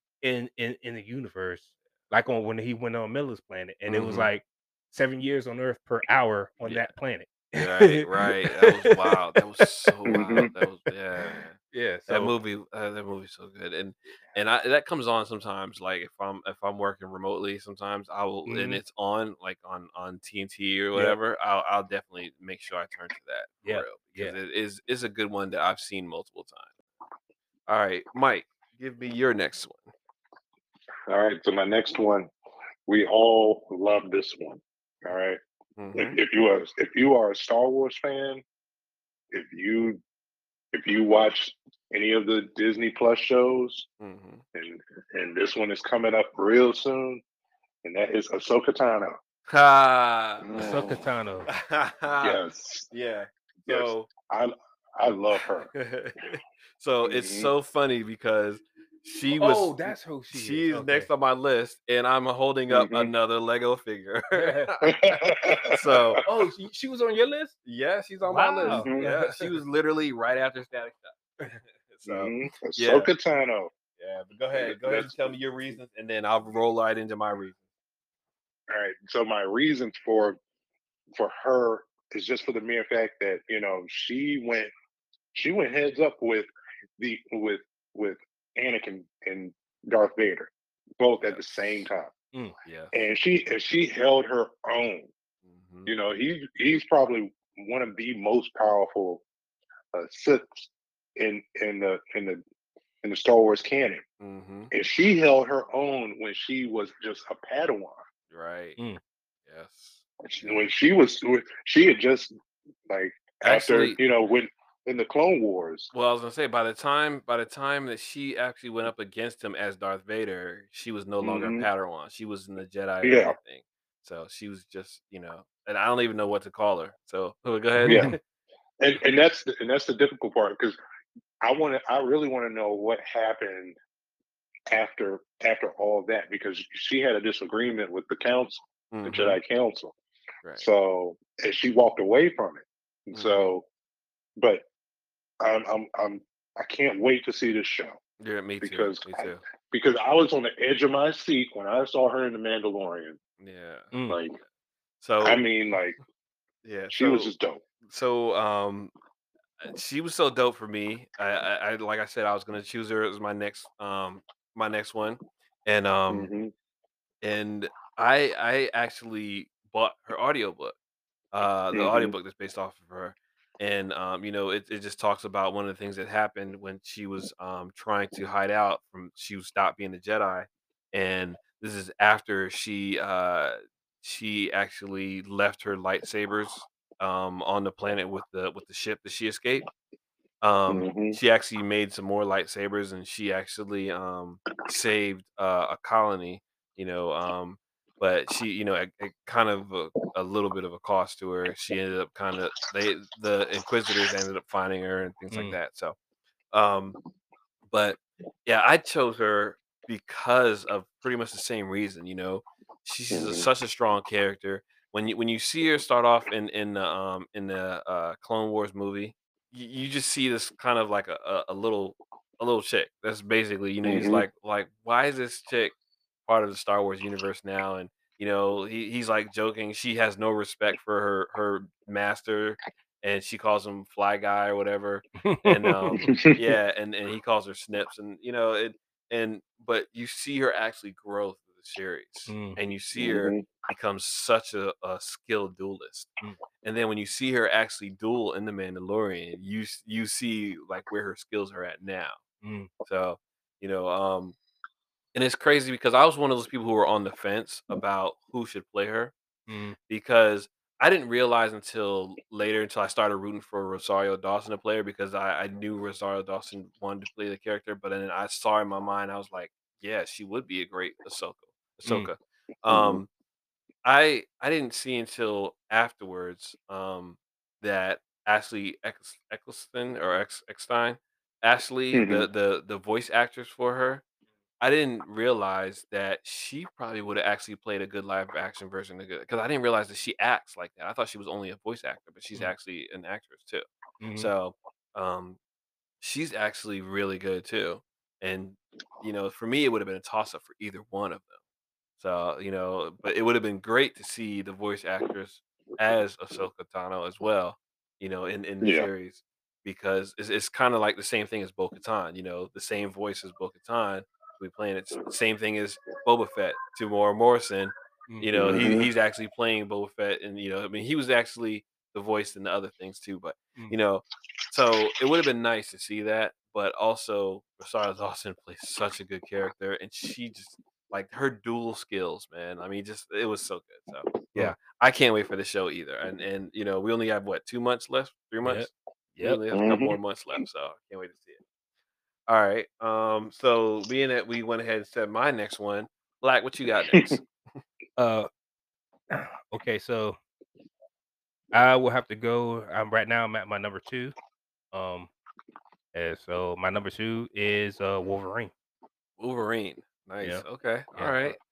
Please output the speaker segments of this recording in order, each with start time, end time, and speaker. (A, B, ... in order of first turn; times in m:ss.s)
0:00.2-0:10.4 A
0:03.9-0:04.3 B
0:06.6-0:06.9 B
0:07.6-0:11.6 B
0:10.1-0:10.5 C
0:11.3-0:12.3 A
0:12.1-0:26.7 B
0:18.5-0:18.8 A
0:23.6-0:24.4 A
0:27.7-0:29.9 B
0:31.1-0:32.3 C
0:32.9-0:35.4 C
0:35.8-0:36.2 B
0:35.9-0:38.4 C
0:39.3-0:40.0 C
0:40.7-0:43.9 C
0:44.0-0:44.4 B
0:44.6-0:47.2 C
0:47.8-0:49.2 C
0:49.5-0:50.8 B
0:50.4-0:51.0 C
0:50.6-0:51.5 A
0:51.5-0:52.4 B
0:52.2-0:52.9 C
0:52.9-0:54.1 B
0:53.7-0:55.7 C
0:55.4-1:06.2 B
0:57.0-0:57.5 C
0:59.4-1:01.1 A
1:02.7-1:03.1 C
1:04.4-1:04.7 A
1:04.8-1:06.1 C
1:06.2-1:07.6 A
1:07.6-1:13.1 B
1:08.2-1:09.6 A
1:08.7-1:09.0 C
1:12.1-1:13.7 C
1:14.0-1:17.6 B
1:14.5-1:15.4 C
1:18.7-1:20.4 C
1:21.1-1:24.7 C
1:25.3-1:32.1 C
1:31.2-1:31.8 B
1:32.6-1:32.9 B
1:32.9-1:35.1 C
1:35.4-1:35.9 B
1:35.9-1:39.2 C
1:39.9-1:42.4 C
1:43.0-1:44.0 C
1:44.2-1:44.7 B
1:44.7-1:48.0 C
1:48.3-1:48.8 B
1:49.5-1:50.7 B
1:50.2-1:52.4 C
1:52.9-1:55.9 C
1:53.4-1:54.0 B
1:55.9-2:08.2 B
2:01.2-2:01.7 C
2:03.0-2:03.4 C
2:07.8-2:08.1 A
2:07.9-2:08.2 C
2:08.8-2:10.8 C
2:11.4-2:13.8 C
2:14.7-2:20.0 C
2:18.9-2:19.4 B
2:20.6-2:23.6 C
2:23.1-2:23.5 B
2:24.4-2:24.6 C
2:25.4-2:28.0 C
2:28.2-2:29.4 B
2:28.6-2:33.2 C
2:33.4-2:33.9 B
2:33.9-2:34.2 A
2:34.1-2:34.4 C
2:35.0-2:35.4 B
2:35.2-2:36.0 C
2:36.6-2:37.3 B
2:36.9-2:37.6 C
2:37.9-2:38.9 B
2:39.6-2:46.3 B
2:46.1-2:46.5 C
2:47.2-2:50.8 B
2:51.3-3:09.7 B
2:51.7-2:52.1 C
3:10.4-3:26.0 B
3:10.7-3:11.2 C
3:25.3-3:25.6 A
3:26.5-3:27.0 B
3:27.7-3:45.8 B
3:33.1-3:33.5 C
3:43.8-3:44.3 C
3:46.3-4:06.1 B
3:55.2-3:56.1 A
3:56.0-3:56.4 C
4:02.3-4:02.6 A
4:03.0-4:03.5 C
4:06.6-4:12.2 B
4:12.4-4:12.7 A
4:12.8-4:14.4 B
4:15.1-4:19.1 B
4:19.5-4:19.8 A
4:19.9-4:33.1 B
4:31.8-4:32.1 A
4:32.7-4:33.0 C
4:33.8-4:44.0 B
4:41.9-4:42.3 C
4:44.6-4:53.6 B
4:54.0-4:54.3 A
4:54.2-4:55.4 B
4:56.0-5:01.4 B
5:02.0-5:41.4 B
5:08.6-5:08.9 C
5:18.3-5:18.9 C
5:38.4-5:39.4 A
5:39.5-5:40.0 C
5:42.3-5:47.2 B
5:48.0-5:48.3 A
5:49.1-5:50.2 A
5:51.5-5:54.1 A
5:54.7-5:55.1 A
5:55.9-5:58.5 A
5:59.2-6:01.4 B
6:01.0-6:01.3 A